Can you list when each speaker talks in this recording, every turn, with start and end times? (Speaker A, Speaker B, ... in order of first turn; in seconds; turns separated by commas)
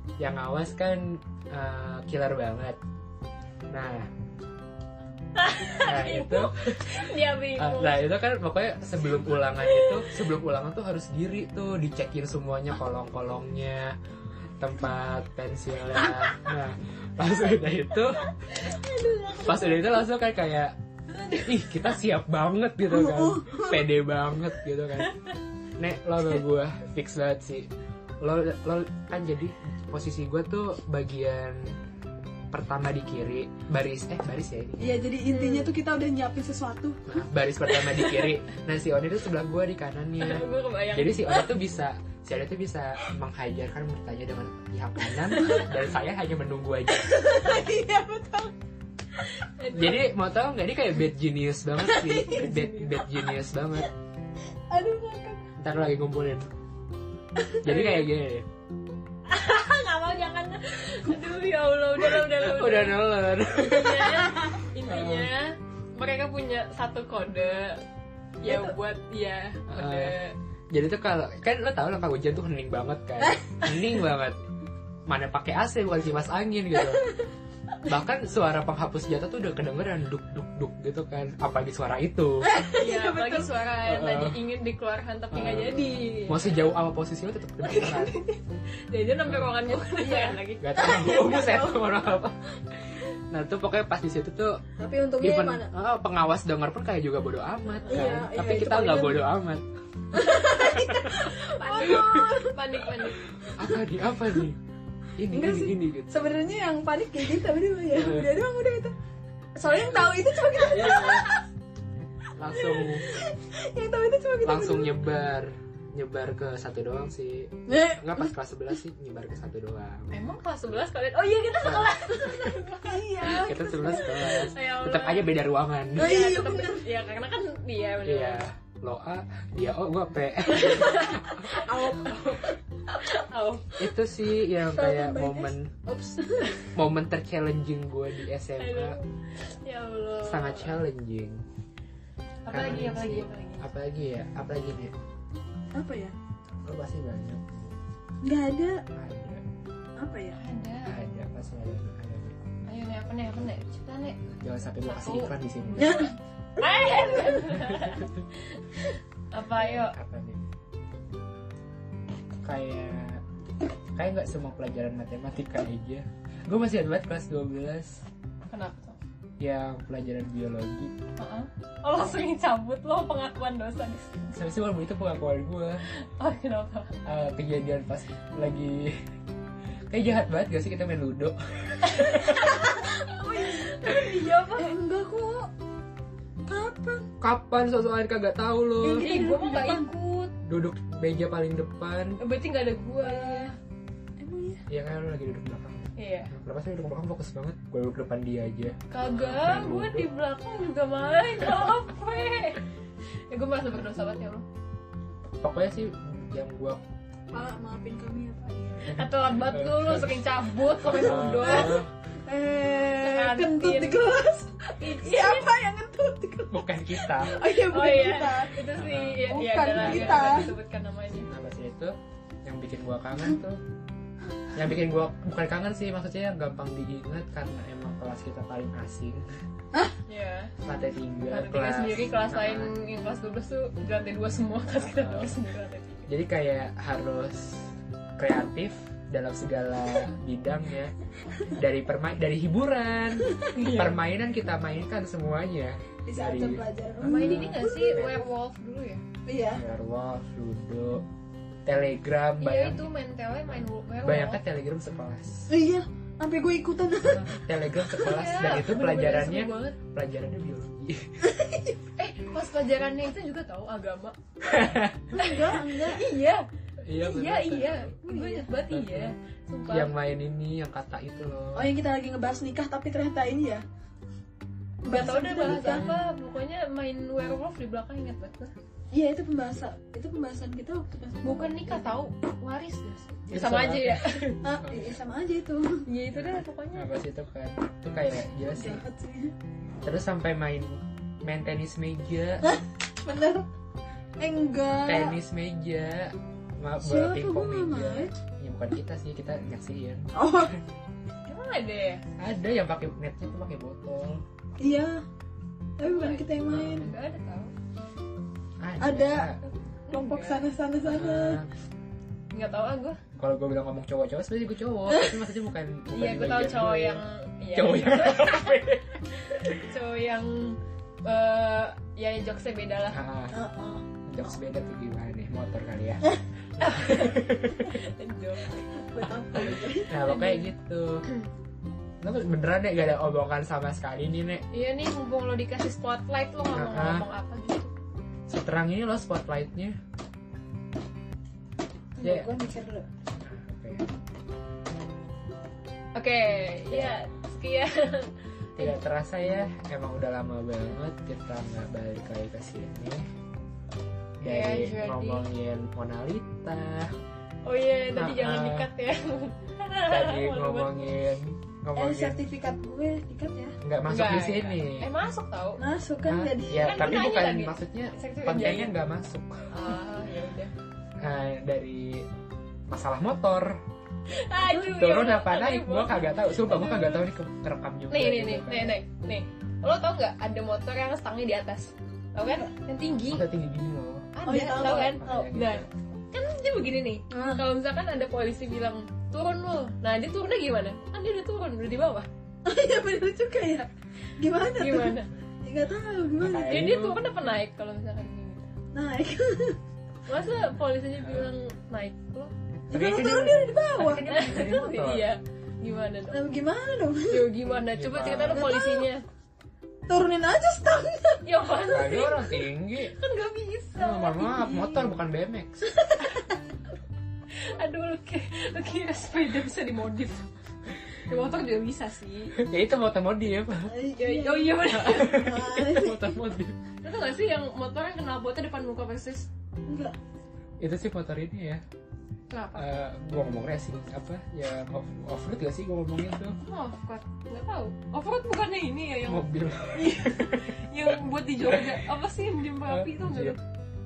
Speaker A: 0.2-2.8, Speaker A: 3.7-4.1, Speaker B: 5.4-8.1, Speaker A: 5.7-14.0, Speaker A: 14.6-18.3, Speaker C: 16.0-16.3, Speaker C: 18.5-19.9, Speaker A: 19.4-20.8, Speaker A: 21.3-25.2, Speaker C: 22.9-23.8, Speaker A: 25.8-27.7, Speaker A: 28.2-31.8, Speaker A: 32.5-34.9, Speaker C: 34.8-37.0, Speaker B: 35.3-35.8, Speaker A: 37.1-47.4, Speaker B: 40.2-41.5, Speaker B: 45.3-45.7, Speaker C: 46.9-48.5, Speaker B: 49.3-50.1, Speaker A: 49.7-53.9, Speaker C: 51.8-53.2, Speaker B: 52.2-52.8, Speaker C: 54.7-55.5, Speaker A: 55.6-56.5, Speaker A: 57.6-58.5, Speaker B: 57.7-58.1, Speaker B: 59.3-67.8, Speaker A: 62.2-65.3, Speaker B: 68.4-70.3, Speaker C: 68.4-68.8, Speaker A: 69.7-70.2, Speaker A: 70.7-74.4, Speaker A: 75.1-77.2, Speaker A: 77.8-82.5, Speaker C: 82.4-83.5, Speaker B: 82.8-86.5, Speaker A: 83.8-84.4, Speaker A: 85.3-88.2, Speaker B: 87.6-91.1, Speaker A: 89.2-89.6, Speaker C: 90.0-91.9, Speaker A: 90.6-94.6, Speaker C: 94.8-95.7, Speaker A: 95.2-99.6, Speaker B: 97.8-98.3, Speaker C: 97.9-99.2, Speaker C: 100.1-102.8, Speaker A: 100.2-102.3, Speaker B: 101.2-103.2, Speaker C: 103.5-103.8, Speaker A: 103.6-104.6, Speaker A: 105.2-106.1, Speaker C: 105.3-109.0, Speaker A: 108.0-108.3, Speaker C: 109.6-111.4, Speaker A: 110.6-111.3, Speaker A: 112.4-113.1, Speaker C: 112.5-115.1, Speaker A: 114.4-120.2, Speaker C: 117.7-118.3, Speaker B: 120.1-125.4, Speaker A: 121.6-122.6, Speaker C: 122.8-124.3, Speaker A: 123.3-126.2, Speaker B: 126.0-128.4, Speaker C: 126.0-126.9, Speaker A: 128.1-131.6, Speaker B: 130.5-133.8, Speaker C: 131.5-132.5, Speaker A: 133.8-135.7, Speaker C: 134.6-136.8, Speaker A: 136.8-139.0, Speaker B: 138.6-140.8, Speaker A: 140.3-141.4, Speaker B: 142.5-143.7, Speaker A: 142.5-144.9, Speaker C: 145.7-146.2, Speaker A: 146.6-147.8, Speaker C: 148.2-148.8, Speaker A: 148.9-149.4, Speaker C: 150.0-150.4, Speaker B: 150.3-150.9, Speaker A: 150.9-152.4, Speaker B: 152.7-154.2, Speaker A: 154.2-156.0, Speaker B: 154.8-156.1, Speaker C: 155.8-156.1, Speaker B: 156.6-159.9, Speaker A: 159.6-160.4, Speaker A: 162.4-163.2, Speaker A: 164.0-168.1, Speaker B: 168.5-169.0, Speaker A: 169.4-170.9, Speaker B: 171.2-174.4, Speaker A: 174.3-175.8, Speaker B: 175.9-176.9, Speaker A: 177.1-179.0, Speaker A: 179.9-182.6, Speaker B: 181.8-184.8, Speaker C: 183.3-185.5, Speaker C: 186.5-187.1, Speaker A: 187.2-189.1, Speaker C: 188.8-189.9, Speaker B: 188.9-190.3, Speaker A: 190.4-192.2, Speaker B: 192.2-193.5, Speaker C: 193.0-193.5, Speaker C: 194.2-194.6, Speaker A: 194.7-200.1, Speaker B: 196.0-196.3, Speaker B: 198.9-202.6, Speaker B: 203.3-204.4, Speaker A: 205.4-206.8, Speaker C: 207.3-209.0, Speaker B: 208.9-211.8, Speaker A: 208.9-210.2, Speaker A: 210.8-211.9, Speaker C: 211.1-218.6, Speaker B: 213.0-214.1, Speaker B: 214.8-215.5, Speaker A: 216.5-217.3, Speaker B: 217.5-221.3, Speaker A: 218.8-220.5, Speaker C: 219.3-220.5, Speaker A: 221.1-223.6, Speaker A: 224.5-229.2, Speaker B: 230.1-230.5, Speaker A: 230.6-232.8, Speaker B: 231.3-236.1, Speaker A: 234.8-235.3, Speaker A: 236.1-240.9, Speaker A: 241.6-248.2, Speaker B: 243.5-244.0, Speaker C: 246.1-247.9, Speaker B: 247.0-249.0, Speaker C: 249.3-249.6, Speaker A: 249.5-251.1, Speaker A: 251.7-252.9, Speaker B: 252.4-254.4, Speaker A: 253.5-255.5, Speaker C: 255.5-257.3, Speaker A: 257.1-261.3, Speaker B: 258.0-259.8, Speaker C: 261.2-261.8, Speaker B: 262.0-264.2, Speaker A: 264.4-265.1, Speaker C: 265.1-266.0, Speaker B: 265.2-269.9, Speaker A: 266.9-268.0, Speaker C: 268.1-268.5, Speaker A: 268.7-269.1, Speaker A: 269.7-271.7, Speaker C: 271.5-273.6, Speaker C: 274.9-275.9, Speaker B: 274.9-278.5, Speaker A: 275.5-276.0, Speaker C: 278.9-281.9, Speaker B: 281.2-284.4, Speaker A: 283.3-284.9, Speaker C: 284.4-285.9, Speaker B: 285.9-286.9, Speaker A: 286.1-288.8, Speaker C: 288.6-289.3, Speaker A: 289.8-292.5, Speaker C: 292.4-293.5, Speaker C: 294.2-295.2, Speaker A: 294.9-300.1, Speaker C: 296.8-298.1, Speaker C: 300.1-300.6, Speaker B: 301.2-302.0, Speaker A: 302.2-304.2, Speaker C: 304.6-305.0, Speaker C: 305.8-306.9, Speaker B: 305.8-307.5, Speaker A: 306.5-306.9, Speaker A: 308.6-309.4, Speaker C: 308.8-309.3, Speaker B: 309.9-310.5, Speaker C: 309.9-311.4, Speaker A: 310.8-311.5, Speaker B: 312.3-313.0, Speaker A: 313.2-317.0, Speaker B: 315.9-318.6, Speaker A: 317.5-319.6, Speaker B: 319.3-323.0, Speaker A: 322.9-323.4, Speaker C: 323.3-323.9, Speaker A: 324.1-326.1, Speaker A: 326.6-327.8, Speaker B: 326.6-328.7, Speaker C: 328.8-329.9, Speaker A: 329.9-331.1, Speaker B: 330.0-330.5, Speaker A: 332.0-334.4, Speaker B: 334.5-337.7, Speaker A: 336.5-337.1, Speaker A: 338.3-339.8, Speaker C: 342.0-342.9, Speaker A: 342.0-342.3, Speaker A: 343.2-343.9, Speaker B: 345.9-348.8, Speaker A: 346.7-347.0, Speaker A: 348.6-353.0, Speaker A: 354.2-356.9, Speaker B: 354.2-355.2, Speaker B: 357.4-360.9, Speaker A: 357.9-358.7, Speaker A: 359.9-362.2, Speaker C: 361.8-363.6, Speaker A: 363.6-364.9, Speaker B: 363.9-365.6, Speaker C: 365.6-366.9, Speaker A: 366.1-369.5, Speaker B: 366.6-368.7, Speaker B: 369.5-370.5, Speaker A: 371.0-372.1, Speaker A: 372.7-373.6, Speaker B: 374.1-377.1, Speaker A: 374.6-378.8, Speaker B: 377.9-383.3, Speaker C: 382.2-382.5, Speaker A: 383.1-385.7, Speaker B: 384.1-392.1, Speaker C: 384.3-385.0, Speaker C: 387.1-387.5, Speaker C: 392.4-396.6, Speaker B: 394.6-395.1, Speaker A: 396.2-397.0, Speaker B: 396.4-398.5, Speaker C: 398.7-399.6, Speaker B: 400.1-402.3, Speaker A: 401.0-401.3, Speaker C: 402.7-404.3, Speaker A: 402.7-405.1, Speaker B: 403.8-406.2, Speaker C: 406.1-407.3, Speaker B: 407.1-409.0, Speaker A: 407.7-408.5, Speaker C: 408.3-408.9, Speaker C: 409.9-411.3, Speaker B: 411.2-414.3, Speaker A: 411.7-412.9, Speaker A: 413.8-415.7, Speaker C: 414.4-414.9, Speaker B: 417.3-420.3, Speaker B: 421.0-422.4, Speaker A: 422.4-423.7, Speaker C: 423.7-426.0, Speaker B: 424.0-425.9, Speaker A: 424.7-426.6, Speaker B: 426.8-429.3, Speaker C: 429.7-430.0, Speaker A: 430.6-431.6, Speaker B: 432.3-432.7, Speaker A: 432.6-436.4, Speaker B: 436.4-443.4, Speaker A: 439.1-440.6, Speaker A: 441.5-441.8, Speaker A: 442.7-443.4